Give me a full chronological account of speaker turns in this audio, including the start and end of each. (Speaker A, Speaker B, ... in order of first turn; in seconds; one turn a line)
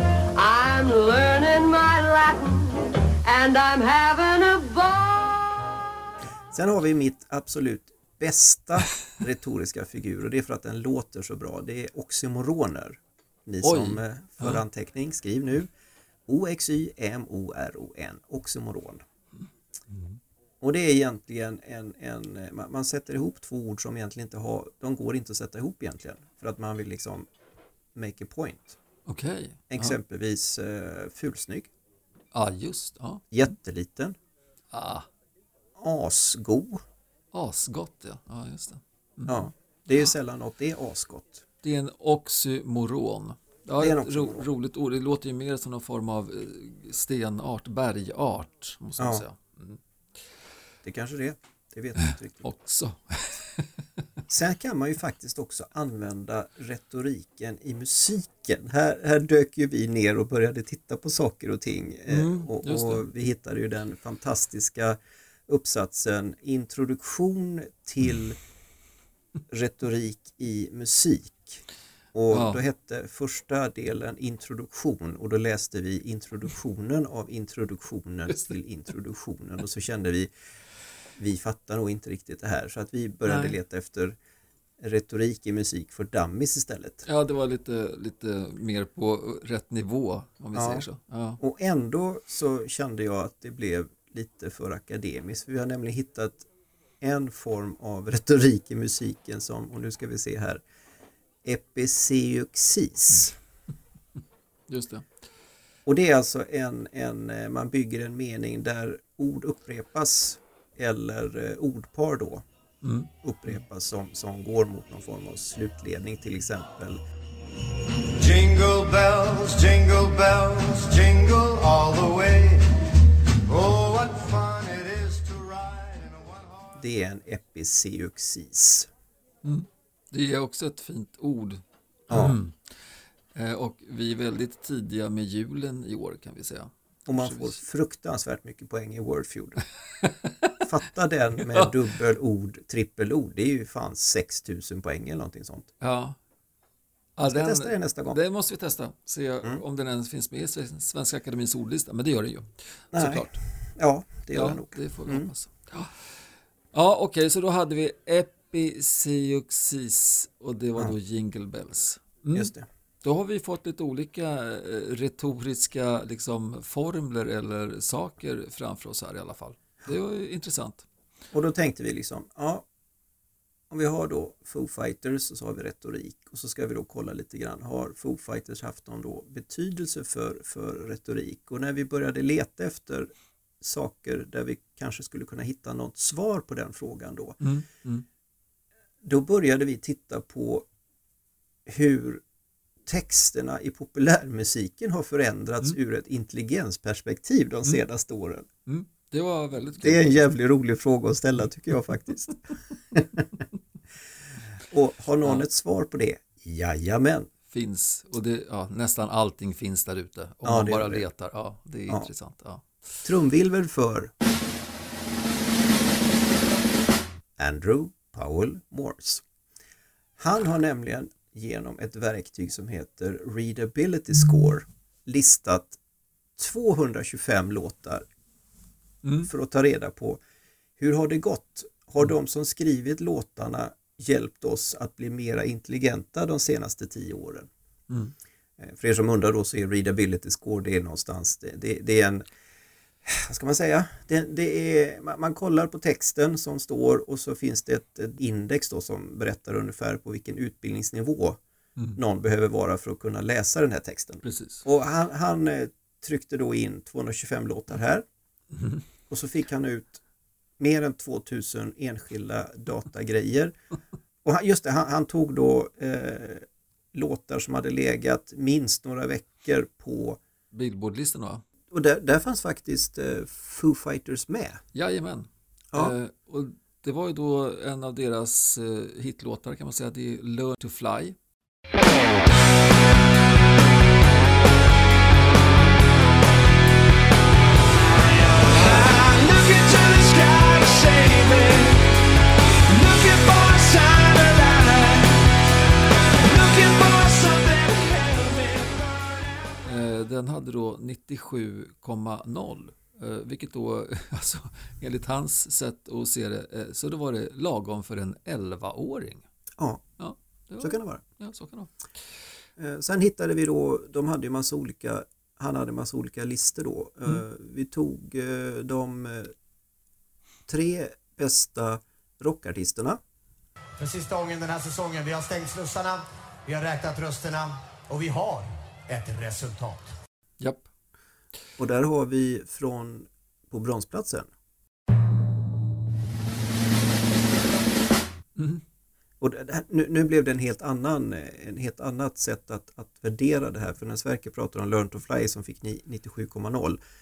Speaker A: 0.3-5.5
Speaker B: 6.5-15.7
Speaker C: 13.6-14.6
Speaker B: 16.3-19.0
Speaker C: 19.9-20.2
Speaker B: 20.6-27.3
Speaker B: 27.9-28.8
Speaker C: 29.1-30.0
Speaker B: 29.7-31.7
Speaker C: 32.3-33.2
Speaker B: 33.3-34.1
Speaker C: 34.7-35.1
Speaker B: 35.8-36.8
Speaker C: 37.3-39.5
Speaker B: 39.3-41.4
Speaker C: 41.6-49.8
Speaker B: 43.8-44.5
Speaker B: 49.0-49.2
Speaker B: 50.8-52.5
Speaker C: 52.1-53.6
Speaker B: 54.3-68.4
Speaker C: 62.1-63.0
Speaker B: 69.5-71.6
Speaker B: 72.1-80.3
Speaker C: 72.3-72.6
Speaker B: 81.2-84.2
Speaker C: 83.2-83.5
Speaker B: 84.8-87.0
Speaker C: 87.0-91.4
Speaker B: 90.5-90.8
Speaker B: 91.4-96.5
Speaker B: 97.0-100.6
Speaker B: 101.4-103.3
Speaker C: 104.7-105.0
Speaker B: 105.8-112.4
Speaker C: 112.8-113.1
Speaker B: 113.2-117.0
Speaker D: 118.1-122.7
Speaker D: 123.5-126.7
Speaker B: 126.8-128.9
Speaker C: 129.4-132.5
Speaker B: 132.1-132.4
Speaker C: 133.3-137.6
Speaker B: 137.1-139.6
Speaker C: 140.0-140.5
Speaker B: 140.6-145.7
Speaker C: 145.8-146.2
Speaker C: 147.2-153.4
Speaker B: 147.2-148.2
Speaker B: 152.9-155.3
Speaker C: 154.3-155.9
Speaker C: 156.7-162.5
Speaker B: 162.3-162.7
Speaker C: 163.0-170.8
Speaker B: 171.3-172.7
Speaker B: 173.7-187.4
Speaker C: 187.4-188.0
Speaker B: 189.0-190.7
Speaker B: 191.7-192.2
Speaker B: 192.8-198.5
Speaker C: 198.7-200.2
Speaker B: 199.8-202.3
Speaker B: 202.9-203.2
Speaker B: 204.7-207.3
Speaker C: 207.5-212.6
Speaker B: 210.4-211.0
Speaker B: 213.0-214.1
Speaker B: 217.4-219.2
Speaker B: 220.2-225.8
Speaker B: 226.4-228.1
Speaker C: 229.0-229.3
Speaker B: 229.2-230.2
Speaker B: 230.8-237.5
Speaker B: 238.6-242.2
Speaker B: 243.0-251.4
Speaker B: 251.9-258.1
Speaker C: 254.2-254.6
Speaker C: 258.5-258.8
Speaker B: 259.1-260.0
Speaker B: 260.6-263.5
Speaker B: 264.2-270.2
Speaker C: 270.5-271.4
Speaker B: 271.7-274.6
Speaker C: 274.7-281.1
Speaker E: 287.8-291.9
Speaker E: 292.7-295.2
Speaker E: 295.9-299.0
Speaker C: 299.6-309.2
Speaker B: 309.6-309.8
Speaker C: 310.0-311.7
Speaker B: 310.6-311.0
Speaker B: 312.6-319.3
Speaker B: 320.5-323.0
Speaker F: 323.8-329.9
Speaker C: 330.4-330.7
Speaker B: 331.6-334.3
Speaker C: 338.4-338.6
Speaker B: 339.2-346.8